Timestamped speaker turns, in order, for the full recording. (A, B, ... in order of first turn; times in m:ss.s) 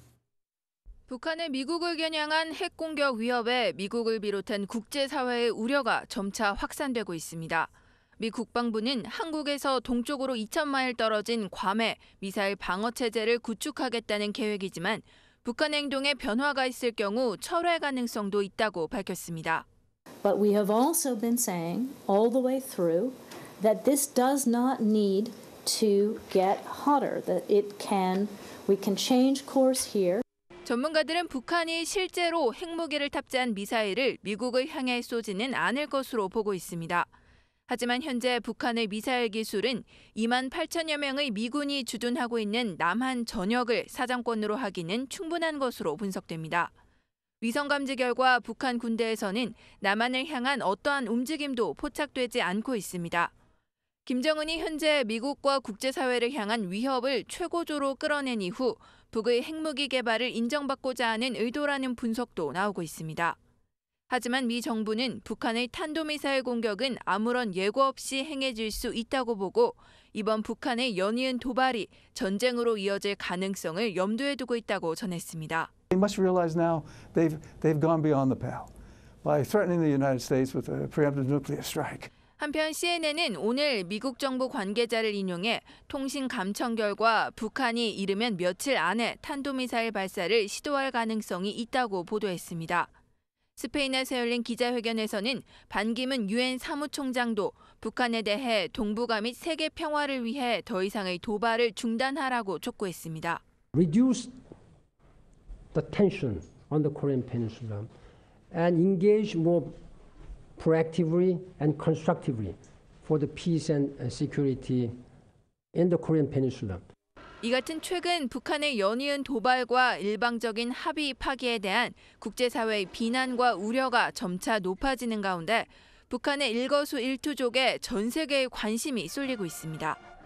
0:01.1-0:19.6 A
0:20.2-0:30.2 B
0:30.6-0:37.1 A
0:37.7-0:46.7 A
0:47.4-0:53.3 A
0:54.0-1:03.4 A
1:04.1-1:15.7 A
1:15.9-1:18.7 C
1:19.2-1:22.1 C
1:22.4-1:32.9 A
1:33.6-1:43.4 A
1:43.7-1:44.3 D
1:45.7-1:47.9 D
1:48.5-1:49.7 D
1:50.6-1:55.0 D
1:55.7-1:56.8 D
1:57.4-2:10.0 A